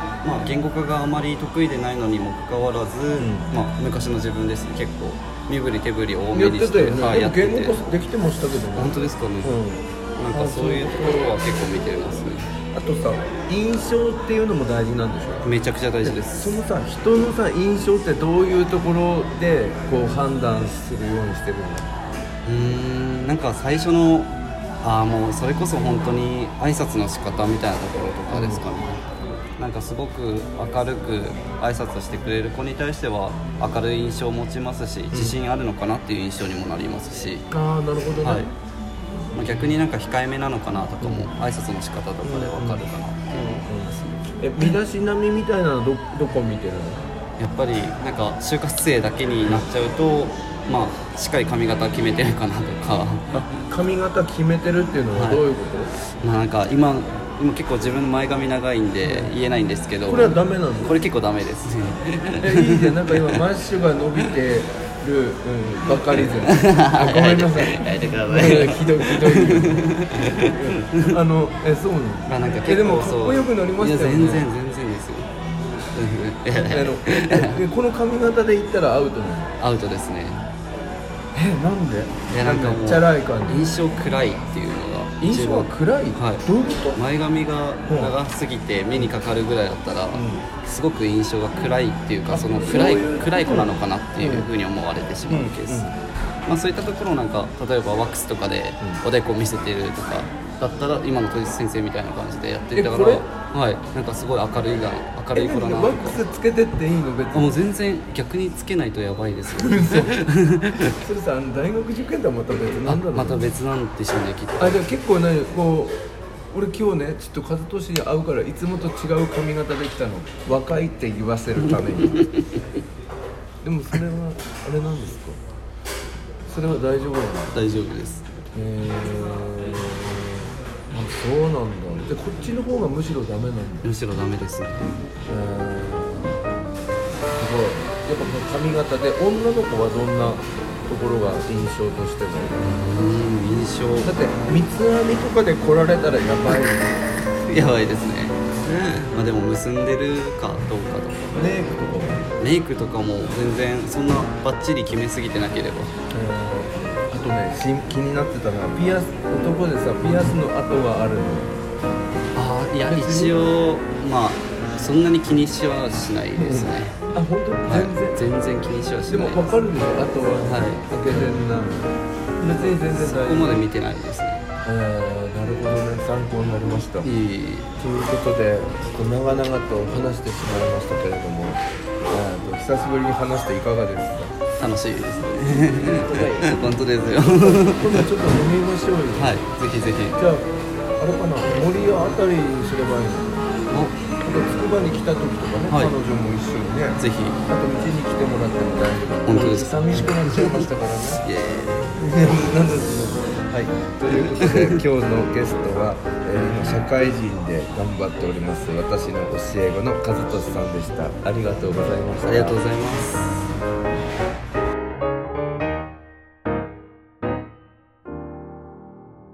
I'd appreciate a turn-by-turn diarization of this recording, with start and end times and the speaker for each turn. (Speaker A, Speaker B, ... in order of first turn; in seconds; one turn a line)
Speaker A: 0.2-7.8
Speaker B: 3.2-3.5
Speaker B: 6.3-11.3
Speaker A: 8.8-9.6
Speaker A: 10.2-12.5
Speaker B: 12.7-15.5
Speaker A: 15.4-16.6
Speaker B: 16.0-21.9
Speaker A: 22.4-29.0
Speaker B: 28.3-28.6
Speaker A: 29.6-37.5
Speaker B: 35.1-35.4
Speaker B: 37.5-38.5
Speaker A: 38.2-38.5
Speaker A: 39.3-44.2
Speaker B: 41.0-41.3
Speaker B: 42.2-47.0
Speaker A: 47.4-53.5
Speaker B: 53.7-55.9
Speaker A: 55.1-55.5
Speaker A: 56.2-63.4
Speaker B: 59.0-59.3
Speaker B: 60.1-61.0
Speaker B: 62.4-74.5
Speaker A: 66.4-71.1
Speaker A: 72.3-75.3
Speaker A: 75.9-77.6
Speaker B: 76.7-79.6
Speaker A: 79.6-80.5
Speaker B: 81.3-83.6
Speaker A: 82.3-95.9
Speaker B: 85.2-87.0
Speaker B: 87.9-88.1
Speaker B: 90.1-90.5
Speaker B: 92.3-94.5
Speaker B: 95.3-96.0
Speaker A: 96.5-106.2
Speaker B: 102.7-103.2
Speaker B: 105.3-107.6
Speaker A: 107.3-111.0
Speaker B: 109.6-110.2
Speaker B: 110.8-113.5
Speaker A: 112.8-114.8
Speaker B: 114.6-122.2
Speaker A: 122.1-122.6
Speaker B: 123.6-125.4
Speaker B: 126.5-127.6
Speaker A: 127.5-128.3
Speaker B: 128.5-133.9
Speaker A: 133.8-135.1
Speaker B: 135.3-136.5
Speaker B: 137.3-142.7
Speaker A: 142.6-144.1
Speaker B: 144.0-147.1
Speaker A: 147.5-151.4
Speaker B: 151.3-152.2
Speaker A: 152.4-155.9
Speaker B: 156.1-161.5
Speaker A: 160.0-160.3
Speaker A: 162.3-167.0
Speaker B: 162.8-163.4
Speaker B: 166.4-168.2
Speaker A: 167.7-169.5
Speaker B: 169.1-173.6
Speaker A: 170.5-171.2
Speaker A: 172.6-174.5
Speaker B: 174.7-177.1
Speaker A: 177.0-177.7
Speaker B: 177.8-184.3
Speaker A: 184.6-188.1
Speaker B: 185.7-186.6
Speaker B: 187.3-189.4
Speaker A: 189.2-190.2
Speaker B: 190.2-193.5
Speaker A: 193.7-194.0
Speaker B: 194.2-201.2
Speaker A: 195.7-195.9
Speaker A: 197.0-197.4
Speaker A: 199.3-200.7
Speaker A: 201.2-202.5
Speaker B: 202.0-212.6
Speaker A: 204.1-204.8
Speaker A: 212.2-213.5